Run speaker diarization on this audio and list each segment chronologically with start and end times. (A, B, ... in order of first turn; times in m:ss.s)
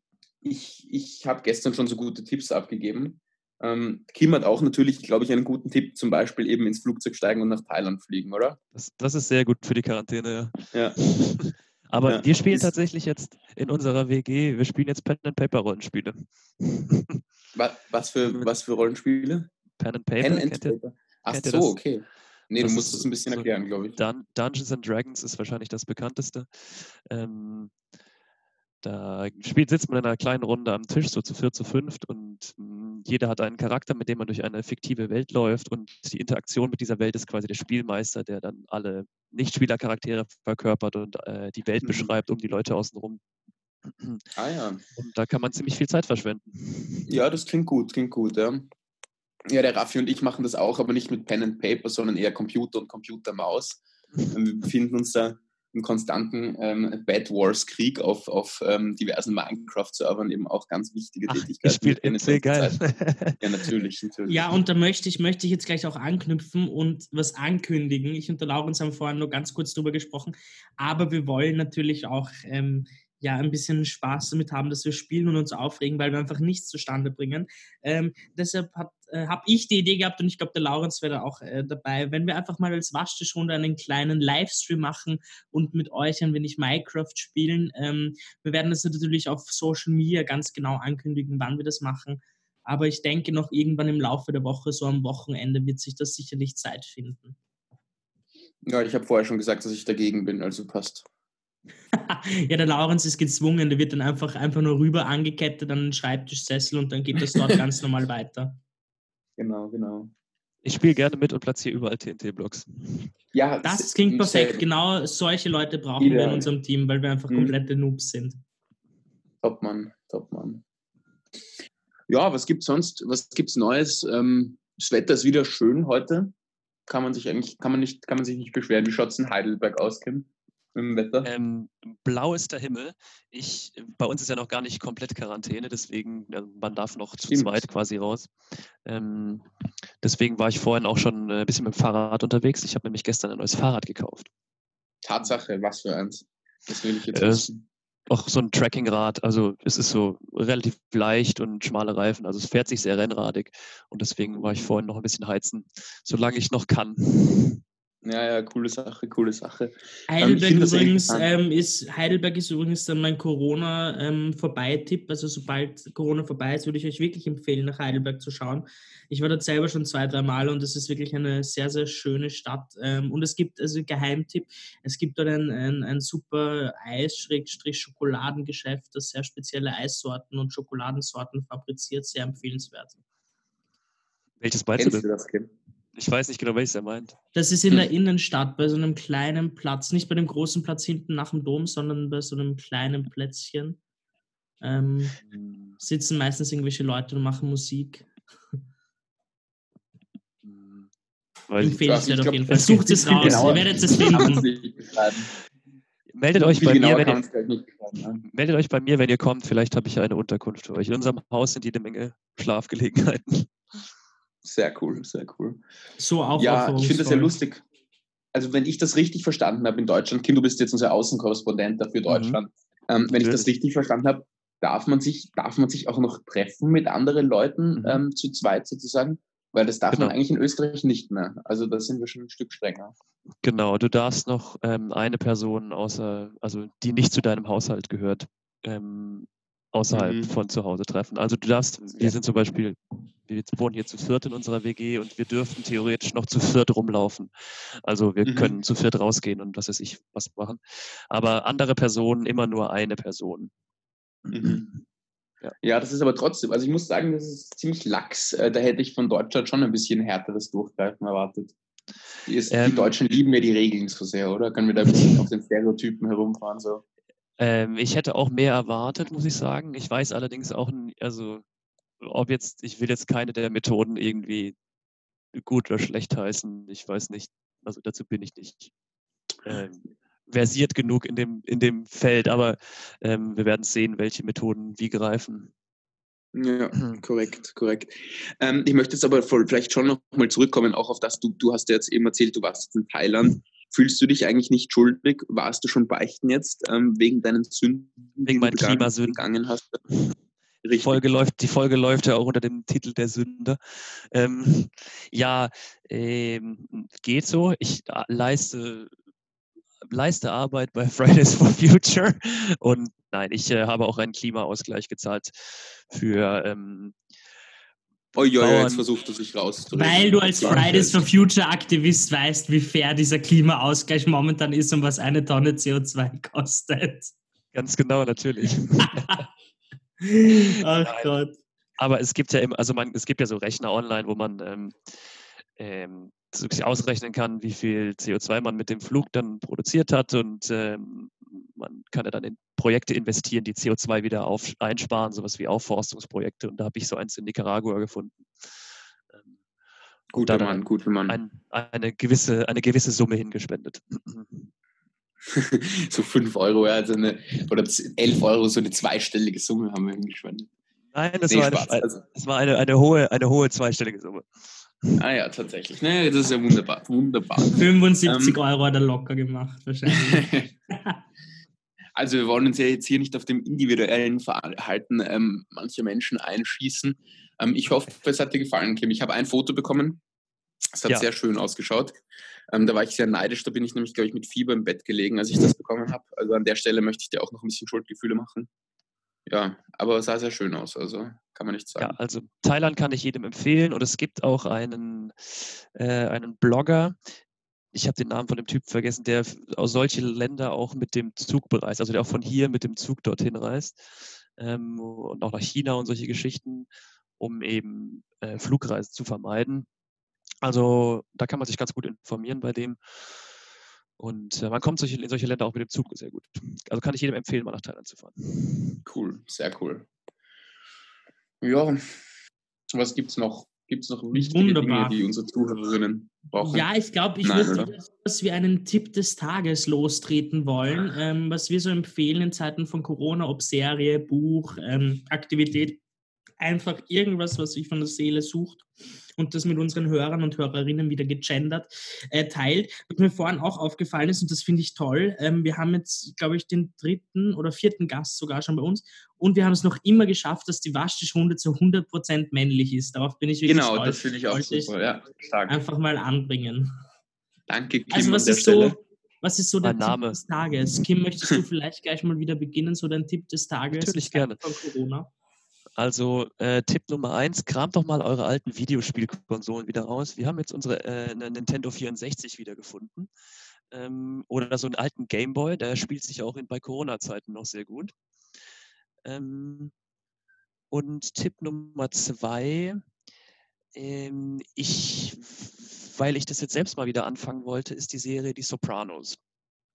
0:00.4-0:08.6 A
0:08.8-0:17.2 B
0:12.1-0:12.8 A
0:17.6-0:19.5 A
0:19.8-0:20.8 B
0:20.2-0:24.0 A
0:21.3-0:21.8 B
0:22.6-0:27.7 B
0:28.8-0:43.2 B
0:41.8-0:42.1 A
0:43.9-0:44.2 B
0:44.4-0:44.8 A
0:45.0-0:47.1 B
0:47.1-0:48.7 A
0:49.5-1:02.8 A
1:01.3-1:03.4 B
1:03.4-1:04.4 A
1:04.3-1:37.4 C
1:38.7-1:41.0 A
1:41.9-1:48.6 C
1:49.4-1:50.1 A
1:50.6-1:53.1 B
1:53.3-1:54.6 A
1:53.6-1:58.4 C
1:56.0-1:56.5 A
1:59.4-2:00.6 A
2:02.1-2:06.3 A
2:06.9-2:11.3 A
2:11.2-2:18.3 B
2:17.3-2:17.7 A
2:18.8-2:19.5 B
2:20.0-2:24.3 B
2:25.0-2:27.6 A
2:27.1-2:27.5 B
2:28.1-2:37.6 B
2:38.0-2:41.3 A
2:40.1-3:03.0 C
3:04.4-3:05.1 B
3:04.8-3:05.5 A
3:06.0-3:07.2 B
3:07.3-3:13.8 C
3:14.6-3:15.2 C
3:15.2-3:15.8 B
3:15.8-3:18.1 C
3:20.4-3:20.9 B
3:21.5-3:21.9 B
3:21.6-3:24.4 C
3:21.8-3:22.6 A
3:22.5-3:24.4 B
3:23.1-3:25.3 A
3:26.1-3:27.2 B
3:26.4-3:28.2 A
3:28.2-3:33.5 B
3:34.4-3:35.6 A
3:36.0-3:37.4 C
3:36.4-3:37.6 A
3:38.3-3:52.9 A
3:42.1-3:42.4 B
3:43.1-3:43.5 B
3:47.8-3:48.0 B
3:49.9-3:50.2 B
3:53.4-4:07.3 B
3:59.9-4:00.3 A
4:07.8-4:13.5 B
4:08.3-4:08.6 A
4:14.3-4:14.6 A
4:14.4-4:14.8 B
4:15.6-4:21.5 A
4:22.3-4:26.8 A
4:22.5-4:23.0 B
4:27.4-4:31.4 B
4:32.0-4:34.6 B
4:35.3-4:38.7 B
4:39.4-4:45.5 B
4:46.3-4:59.8 A
4:46.8-4:47.0 B
4:58.2-4:59.2 B
5:00.6-5:01.0 A
5:00.8-5:03.6 B
5:04.1-5:08.9 B
5:09.9-5:15.3 B
5:15.9-5:17.0 B
5:18.2-5:21.0 A
5:18.4-5:18.9 B
5:19.7-5:27.1 C
5:20.4-5:20.7 B
5:27.5-5:29.2 B
5:30.0-5:31.4 C
5:30.3-5:31.1 B
5:31.8-5:34.8 B
5:35.6-5:48.5 B
5:50.1-5:51.2 A
5:50.2-5:54.5 B
5:55.3-6:00.5 A
6:00.9-6:04.3 B
6:01.3-6:02.0 A
6:05.0-6:08.4 A
6:07.6-6:11.0 C
6:10.0-6:10.5 A
6:12.0-6:20.0 A
6:20.8-6:28.5 A
6:29.3-6:32.0 A
6:31.8-6:37.0 B
6:37.7-6:46.7 B
6:47.2-6:49.7 B
6:50.4-6:52.8 B
6:54.0-6:58.8 B
6:58.9-6:59.9 A
7:01.4-7:01.8 A
7:02.7-7:06.7 A
7:04.1-7:05.0 C
7:06.4-7:15.8 C
7:07.2-7:07.7 A
7:16.4-7:34.7 C
7:33.4-7:35.6 A
7:35.5-7:36.7 C
7:37.5-7:38.8 A
7:37.9-7:45.1 C
7:39.6-7:40.2 B
7:43.7-7:44.4 B
7:45.8-7:53.1 B
7:53.7-7:58.0 B
7:59.0-7:59.7 B
8:00.7-8:02.8 B
8:03.8-8:09.2 B